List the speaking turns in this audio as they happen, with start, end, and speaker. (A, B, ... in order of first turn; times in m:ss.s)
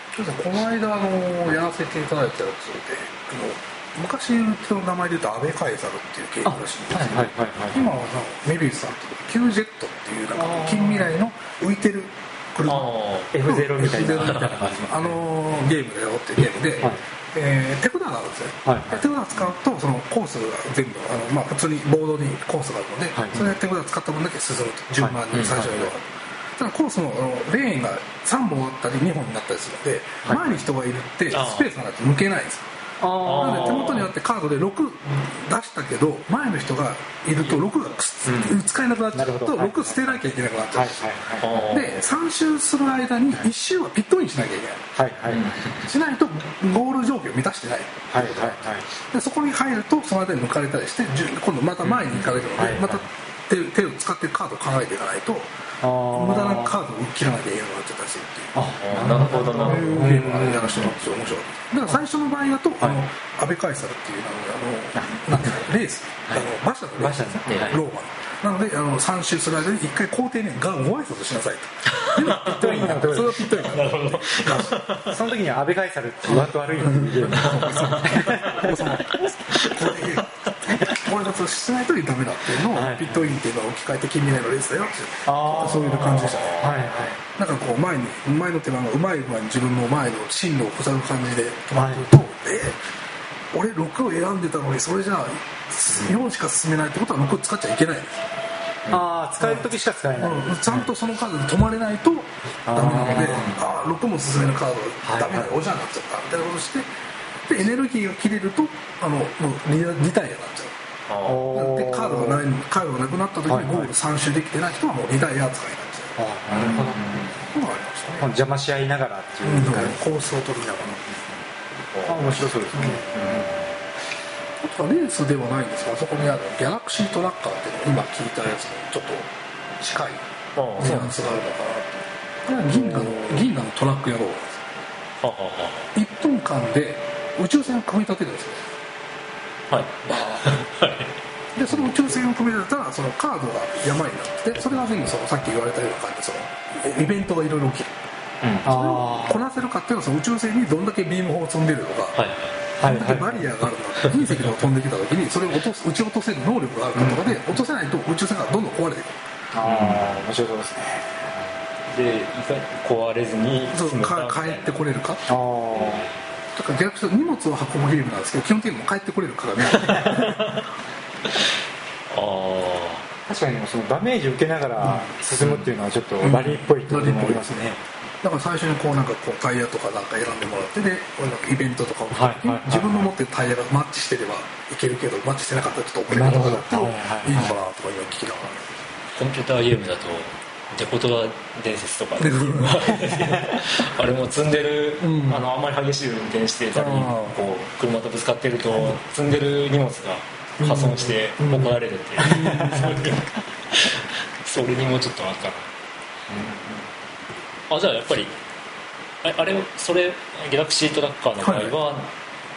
0:00.1-0:32.7 A
0:06.4-0:07.9 B
0:10.4-0:11.1 B
0:12.7-0:13.4 C
0:13.3-0:15.2 B
0:14.1-0:14.8 C
0:18.6-0:19.1 B
0:23.1-0:23.5 B
0:25.0-0:25.8 B
0:25.3-0:25.8 C
0:30.2-0:30.6 B
0:31.3-0:31.7 C
0:33.0-0:34.0 B
0:33.2-0:34.1 C
0:33.2-0:41.1 A
0:38.3-0:38.6 B
0:39.1-0:40.2 B
0:40.7-0:41.9 B
0:41.4-0:42.0 C
0:41.7-0:44.9 A
0:45.0-0:45.9 B
0:45.3-0:45.8 C
0:45.7-0:55.5 A
0:48.1-0:48.9 B
0:51.8-0:52.7 C
0:52.6-0:53.0 B
0:55.8-0:56.8 B
0:56.1-0:58.6 A
0:58.5-1:01.0 B
0:58.8-1:00.1 C
0:59.5-1:14.8 A
1:05.0-1:05.2 B
1:06.3-1:07.8 B
1:07.4-1:07.8 C
1:11.9-1:15.2 C
1:12.4-1:13.8 B
1:15.1-1:19.3 B
1:16.3-1:26.6 A
1:17.3-1:18.8 C
1:22.7-1:23.3 B
1:25.3-1:27.2 B
1:25.6-1:26.9 C
1:27.4-1:32.8 A
1:31.8-1:32.0 B
1:33.5-1:38.3 A
1:38.9-1:40.9 B
1:39.4-1:46.9 A
1:42.7-1:43.6 B
1:43.2-1:43.7 C
1:45.0-1:45.5 B
1:47.5-1:50.8 A
1:51.1-1:51.5 C
1:51.3-1:52.4 B
1:51.5-1:56.7 A
1:53.5-1:53.9 B
1:56.2-1:57.4 B
1:56.9-1:57.3 C
1:57.5-1:58.3 A
1:58.2-2:00.0 B
1:59.4-2:01.1 A
2:01.9-2:03.5 C
2:02.1-2:03.6 B
2:02.7-2:03.1 A
2:04.6-2:14.6 A
2:10.6-2:11.1 C
2:15.2-2:15.9 C
2:15.9-2:18.7 A
2:19.7-2:21.1 C
2:20.1-2:20.5 A
2:21.6-2:27.9 A
2:28.6-2:32.2 A
2:28.6-2:29.4 B
2:32.1-2:32.6 C
2:32.8-2:33.5 B
2:32.8-2:39.2 A
2:34.0-2:34.6 C
2:37.0-2:37.4 B
2:39.5-2:41.3 B
2:39.6-2:40.2 C
2:41.9-2:44.8 C
2:43.7-2:45.3 A
2:45.3-2:46.1 B
2:45.7-2:46.3 C
2:46.6-2:50.6 A
2:49.7-2:50.7 C
2:52.1-2:53.1 C
2:53.3-2:57.8 B
2:54.8-2:55.1 A
2:55.4-2:55.7 C
2:56.2-3:08.7 A
3:02.1-3:03.0 B
3:06.1-3:07.6 B
3:09.2-3:25.7 C
3:12.2-3:13.2 A
3:15.0-3:15.4 A
3:16.8-3:17.4 A
3:20.6-3:23.2 A
3:26.3-3:26.8 B
3:27.7-3:28.4 C
3:29.2-3:32.1 C
3:31.4-3:31.8 A